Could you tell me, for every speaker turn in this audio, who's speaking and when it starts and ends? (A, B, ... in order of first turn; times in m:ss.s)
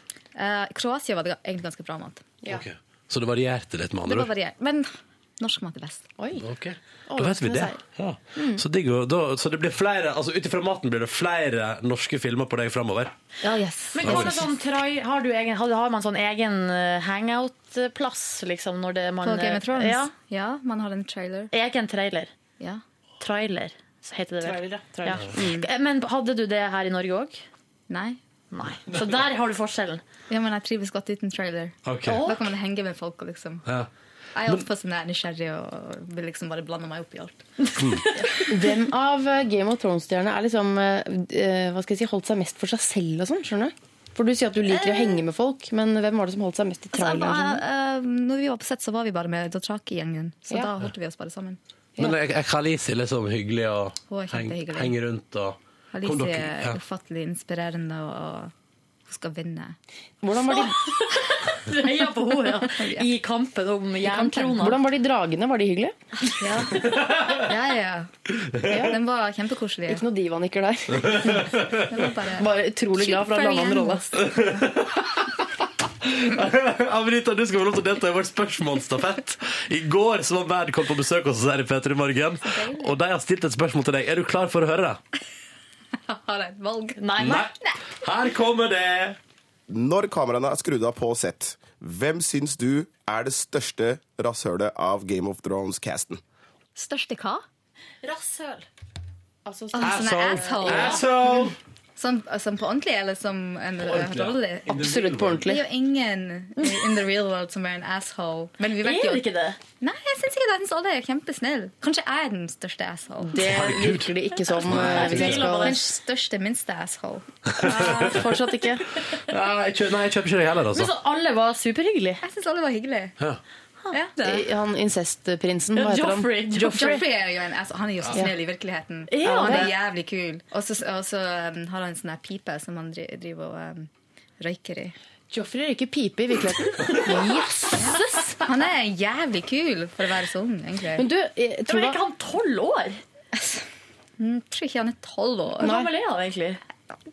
0:00.3-0:02.3 A
0:02.5-0:04.3 B
0:04.0-0:06.1 A
0:06.2-0:06.5 C
0:06.4-0:13.1 B
0:07.1-0:07.8 C
0:08.3-0:08.6 C
0:13.4-0:14.4 A
0:13.9-0:20.1 D
0:14.0-0:14.4 B
0:19.2-0:21.5 A
0:21.5-0:22.3 D
0:23.2-0:27.4 D
0:24.4-0:25.6 C
0:25.4-0:25.6 A
0:27.9-0:28.2 A
0:28.5-0:30.0 D
0:30.3-0:33.6 A
0:31.8-0:32.2 B
0:32.0-0:32.5 D
0:34.3-0:37.4 A
0:37.7-0:38.2 D
0:38.5-0:47.6 C
0:44.7-0:45.2 A
0:46.9-0:51.6 A
0:52.0-0:56.8 B
0:54.1-0:55.0 A
0:55.9-0:58.5 A
0:59.0-0:59.8 A
1:00.2-1:00.9 C
1:00.5-1:04.8 D
1:02.7-1:03.1 A
1:04.1-1:05.9 C
1:06.3-1:08.1 A
1:06.9-1:07.4 B
1:08.6-1:08.8 B
1:08.6-1:09.0 C
1:08.7-1:10.0 A
1:09.9-1:11.5 C
1:11.0-1:12.1 B
1:11.9-1:14.6 A
1:12.4-1:14.1 C
1:14.1-1:15.4 B
1:16.0-1:25.0 B
1:22.4-1:23.0 A
1:26.1-1:27.8 A
1:27.0-1:27.5 D
1:27.2-1:29.2 B
1:29.7-1:36.2 E
1:36.8-1:37.4 A
1:38.0-1:38.7 D
1:39.4-1:41.4 C
1:39.7-1:41.2 A
1:39.8-1:41.5 B
1:42.0-1:44.7 A
1:43.8-1:45.4 B
1:44.7-1:45.6 C
1:45.4-1:49.2 A
1:46.6-1:46.8 D
1:48.8-1:49.6 D
1:49.8-1:53.5 A
1:53.3-1:55.8 C
1:53.3-1:54.1 B
1:54.6-1:55.4 B
1:54.6-1:55.8 D
1:54.8-1:58.1 A
1:57.6-1:58.2 B
1:57.6-1:59.0 C
1:59.3-2:00.9 B
2:00.7-2:02.2 D
2:02.2-2:03.2 A
2:03.9-2:04.5 A
2:04.2-2:07.0 C
2:05.7-2:07.0 D
2:06.6-2:14.9 A
2:09.1-2:09.7 D
2:09.2-2:09.7 C
2:15.3-2:17.9 C
2:16.9-2:18.5 D
2:18.4-2:21.1 A
2:21.0-2:22.0 C
2:21.7-2:23.0 D
2:23.4-2:23.6 A
2:24.2-2:25.9 A
2:25.6-2:26.6 D